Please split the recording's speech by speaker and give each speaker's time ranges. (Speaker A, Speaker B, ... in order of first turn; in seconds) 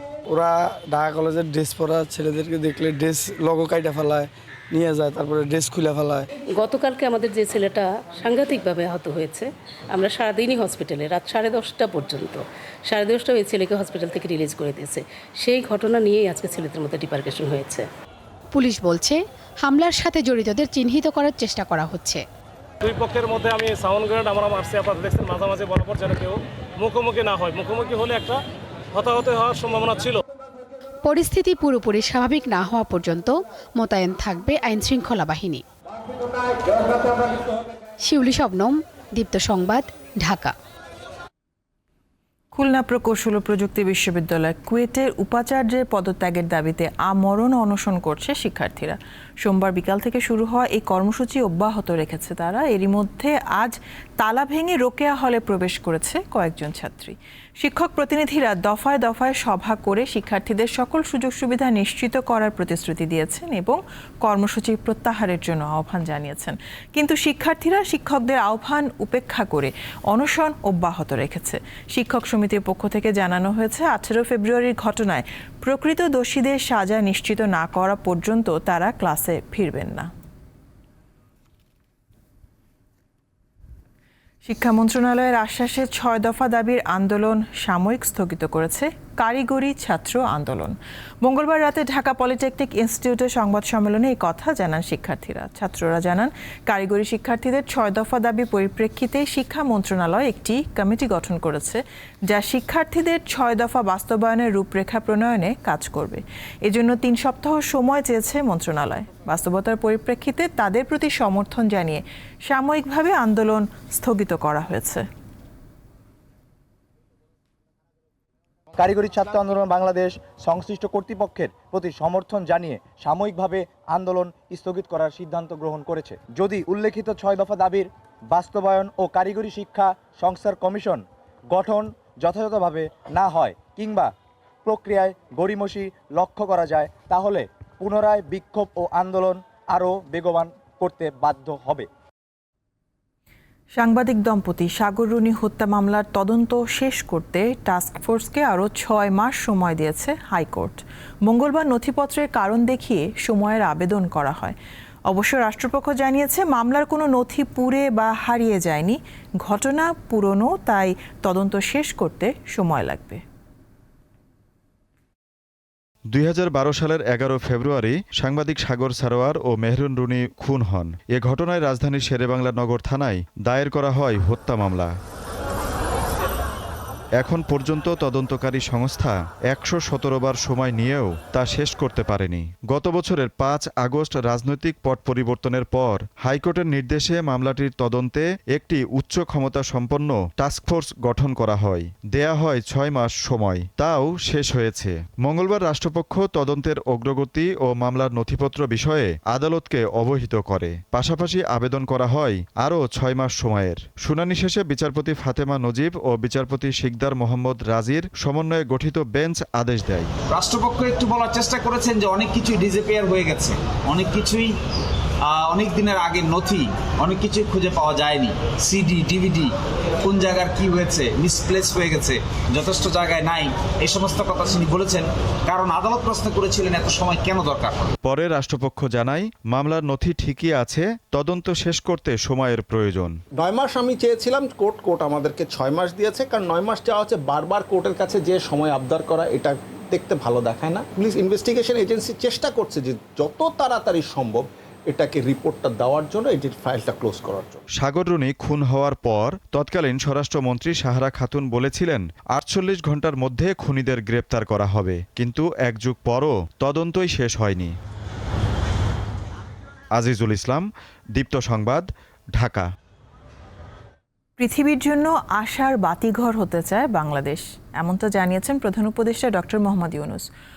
Speaker A: 0.3-6.3
Speaker B: 6.5-17.9
Speaker C: 18.5-22.2, 31.1-35.6, 38.0-40.5
Speaker D: 22.8-28.4, 28.9-30.2
Speaker E: 42.5-80.1, 84.5-115.1, 143.8-154.6, 155.1-163.2, 264.4-270.3
Speaker F: 118.8-134.1, 134.7-141.9
Speaker G: 166.1-175.0, 177.2-210.1, 228.1-233.2, 247.8-257.8, 259.9-262.7
Speaker H: 210.3-214.6, 215.3-227.9
Speaker I: 233.4-247.6